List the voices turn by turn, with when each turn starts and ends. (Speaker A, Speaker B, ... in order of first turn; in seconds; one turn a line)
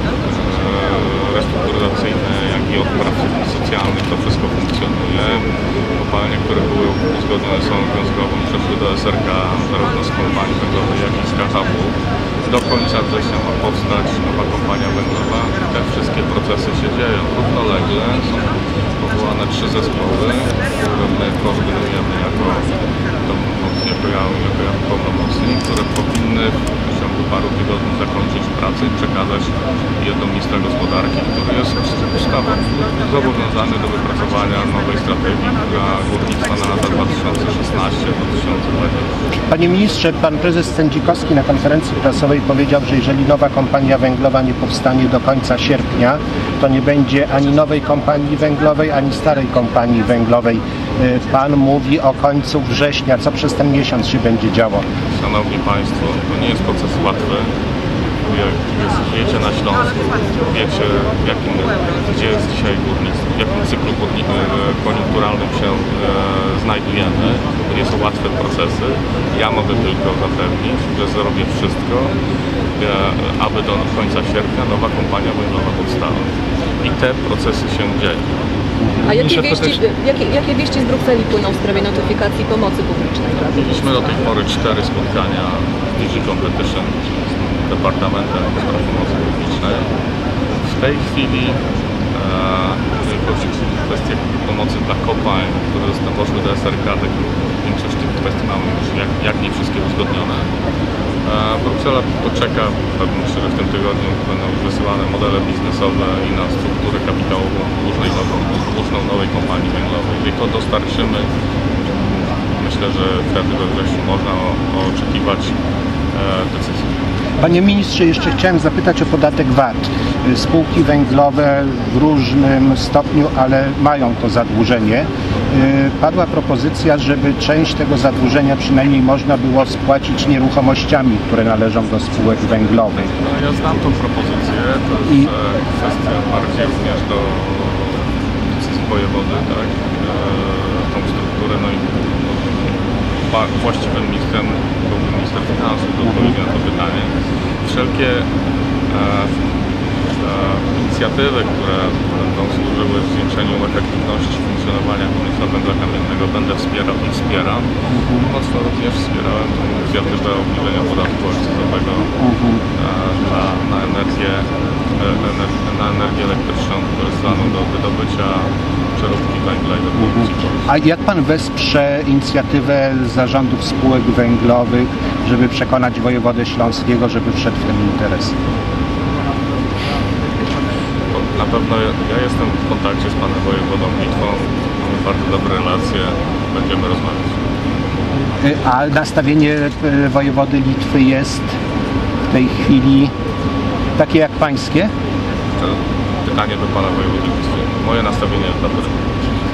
Speaker A: 0.2-39.1
Speaker B: 39.5-54.9
Speaker A: 55.2-57.5
Speaker A: 58.2-72.2
Speaker A: 72.8-76.3
Speaker A: 76.8-78.3
Speaker B: 78.8-79.1
Speaker C: 79.0-83.7
Speaker A: 79.1-79.8
Speaker A: 83.5-89.9
Speaker A: 90.6-91.6
Speaker A: 92.1-100.5
Speaker A: 101.2-111.3
Speaker A: 112.5-115.5
Speaker A: 116.1-116.9
Speaker B: 117.4-133.1
Speaker A: 132.7-142.5
Speaker A: 143.2-148.3
Speaker B: 146.0-146.3
Speaker A: 148.9-149.5
Speaker A: 150.2-162.2
Speaker B: 157.9-158.3
Speaker B: 162.2-162.6
Speaker A: 162.7-170.7
Speaker B: 170.0-178.3
Speaker A: 181.1-187.4
Speaker B: 188.4-191.5
Speaker B: 192.3-193.1
Speaker B: 194.0-194.9
Speaker A: 195.6-199.1